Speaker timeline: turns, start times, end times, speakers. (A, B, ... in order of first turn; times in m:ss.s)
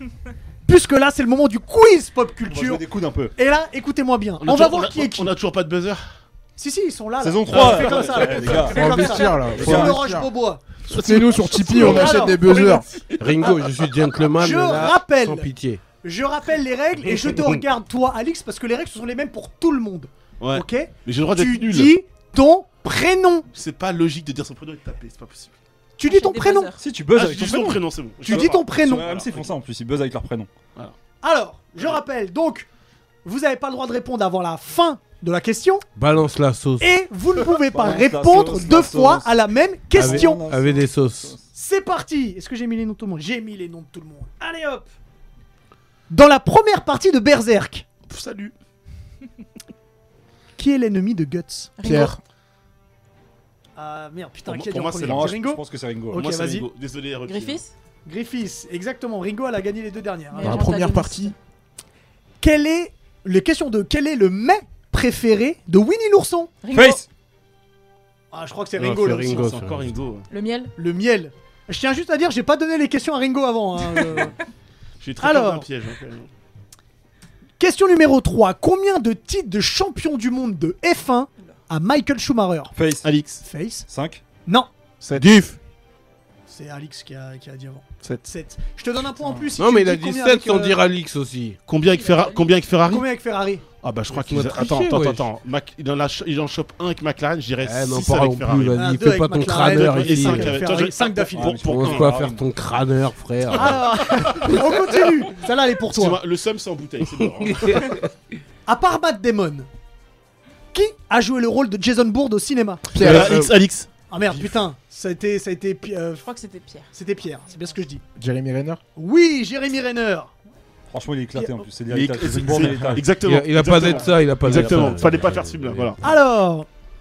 0:00.7-0:02.8 A
0:02.4-0:03.3 B
0:03.4-0:05.3 A
0:04.4-0:06.0 C
0:06.6-0:10.8 A
0:07.2-0:10.0 B
0:07.5-0:08.7 C
0:08.6-0:10.3 D
0:10.9-0:14.2 C
0:10.9-0:12.9 D
0:11.7-0:12.8 A
0:13.2-0:15.8 E
0:14.3-0:15.5 A
0:16.0-0:23.5 A
0:20.4-0:22.0 C
0:23.5-0:25.6 C
0:26.0-0:26.7 A
0:26.0-0:26.8 F
0:26.8-0:30.5 B
0:27.1-0:29.5 C
0:28.2-0:29.2 A
0:31.2-0:32.7 A
0:33.2-0:35.8 A
0:36.0-0:36.9 E
0:36.8-0:40.4 A
0:37.6-0:39.4 B
0:39.9-0:41.5 B
0:40.0-0:41.4 E
0:41.5-0:44.9 A
0:46.1-0:47.9 A
0:48.1-0:48.5 C
0:50.6-0:51.8 A
0:51.8-0:52.2 F
0:51.8-0:52.2 D
0:53.8-0:56.7 A
0:54.4-0:55.4 C
0:55.0-0:56.4 B
0:56.2-0:57.6 C
0:57.3-0:57.7 F
0:58.0-1:00.7 A
1:00.3-1:01.3 F
1:00.4-1:01.4 D
1:02.4-1:06.6 A
1:06.6-1:07.0 F
1:06.7-1:07.1 B
1:08.3-1:09.6 A
1:08.8-1:09.9 E
1:09.3-1:10.3 C
1:10.3-1:10.7 F
1:10.8-1:14.4 A
1:15.0-1:16.3 C
1:15.2-1:15.7 A
1:17.6-1:22.8 A
1:22.7-1:23.1 B
1:23.0-1:23.5 C
1:23.4-1:23.9 A
1:23.9-1:24.2 B
1:25.0-1:25.3 C
1:25.1-1:25.6 E
1:26.5-1:30.8 A
1:29.6-1:31.6 E
1:31.7-1:33.1 C
1:31.9-1:32.5 F
1:32.8-1:33.6 A
1:33.8-1:39.0 C
1:34.1-1:35.3 E
1:37.6-1:40.6 E
1:38.7-1:41.6 A
1:39.5-1:42.1 C
1:41.3-1:42.5 B
1:41.6-1:43.9 E
1:43.5-1:46.2 A
1:44.1-1:44.7 C
1:45.9-1:48.0 C
1:47.1-1:48.1 E
1:48.7-1:49.7 A
1:50.7-1:53.0 A
1:52.9-1:53.4 D
1:53.0-1:53.5 E
1:53.0-1:54.6 C
1:54.1-1:56.3 A
1:56.2-1:56.9 F
1:56.9-1:58.0 A
1:58.2-1:58.8 D
1:59.0-2:00.3 A
2:00.9-2:03.1 B
2:01.4-2:01.7 A
2:01.9-2:06.0 C
2:03.2-2:05.9 E
2:04.5-2:05.2 B
2:06.0-2:06.7 A